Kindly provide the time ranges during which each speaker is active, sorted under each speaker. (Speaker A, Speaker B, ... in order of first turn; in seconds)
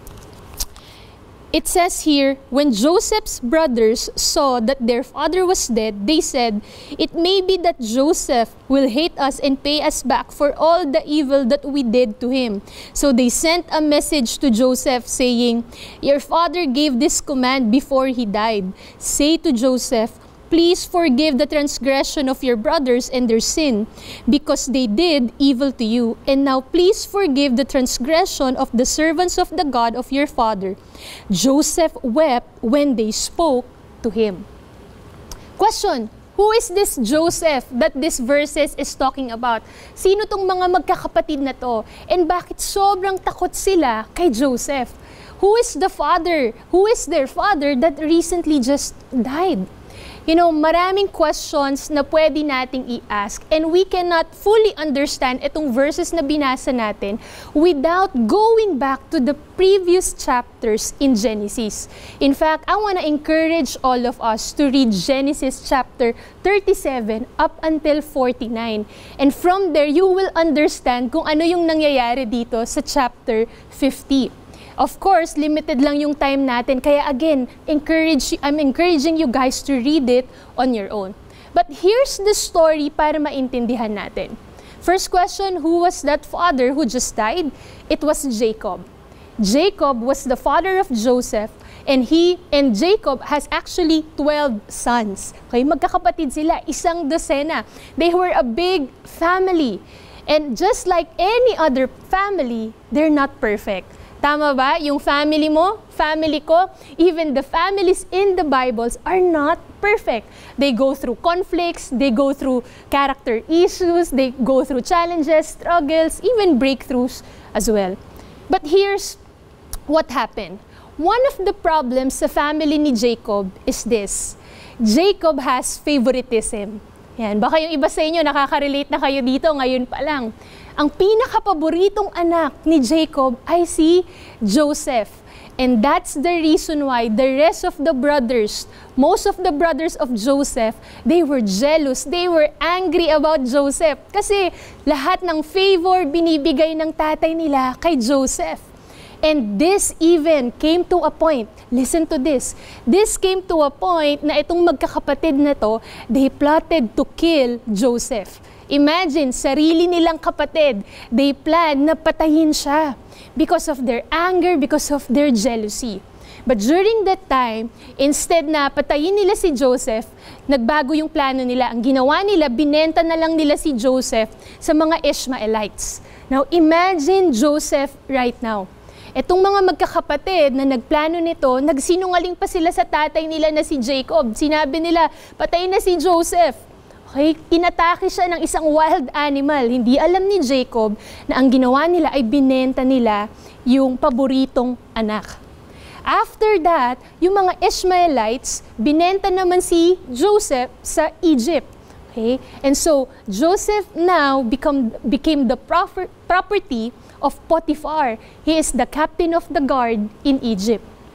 Speaker A: 1.5-30.8, 31.3-34.5, 35.6-49.7, 50.3-88.8, 89.4-118.0, 118.5-119.2, 119.9-148.6, 149.2-195.4, 196.1-210.8